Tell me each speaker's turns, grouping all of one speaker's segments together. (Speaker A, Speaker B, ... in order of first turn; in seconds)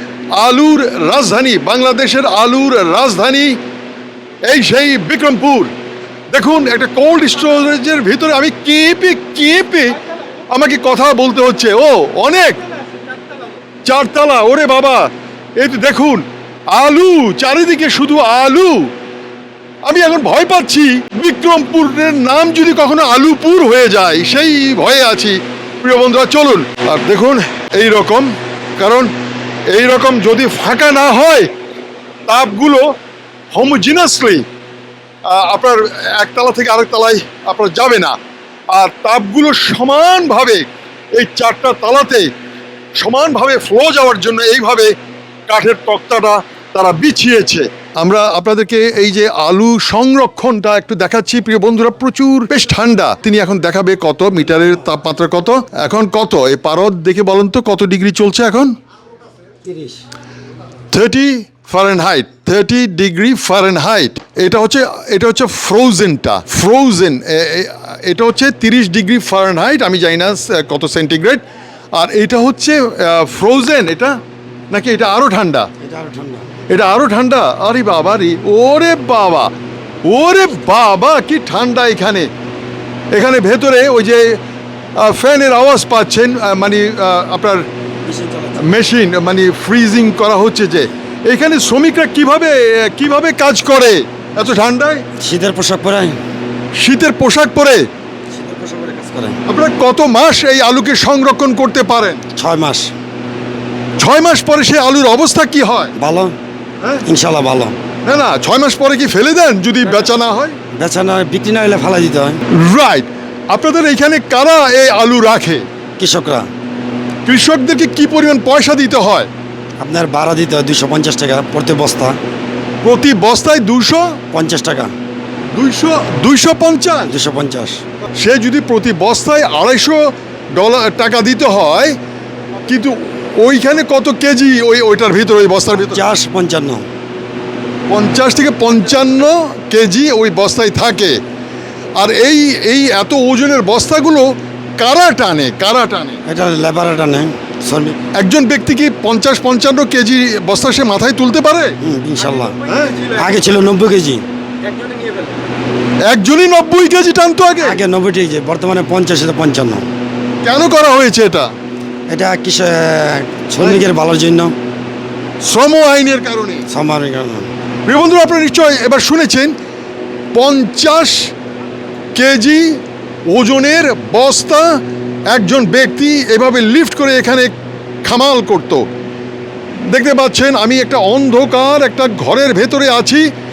Speaker A: 0.4-3.6, 4.5-5.7, 6.3-10.0, 10.5-12.6, 13.9-18.9, 19.9-29.1, 29.7-31.5, 32.3-32.9, 33.5-34.4, 35.3-38.2, 38.7-42.3, 43.0-44.9, 45.5-58.7, 60.9-71.4, 71.9-74.2, 74.7-75.7, 76.7-79.5, 80.0-82.3, 83.1-84.4, 85.0-87.7, 88.6-95.0, 96.8-97.9, 99.5-102.2, 104.0-105.9, 108.0-110.6, 112.5-115.6, 117.2-119.3, 122.8-124.2, 125.5-127.1, 128.2-132.0, 132.7-136.0, 137.9-141.2, 142.0-146.2, 148.2-151.8, 152.7-153.1, 156.1-157.8, 160.4-161.5, 165.4-166.7, 167.9-169.5, 170.3-171.3, 172.2-177.5, 178.0-178.9, 179.9-183.3
Speaker B: 59.6-60.0, 75.8-76.5, 88.1-88.6, 95.2-96.2, 98.3-99.4, 102.3-102.9, 106.0-106.4, 107.1-107.8, 110.7-112.4, 116.0-116.5, 119.8-122.2, 124.3-124.9, 127.1-127.8, 135.9-136.9, 146.3-148.0, 151.8-154.2, 154.8-155.1, 157.6-159.9, 162.1-164.5, 166.7-167.5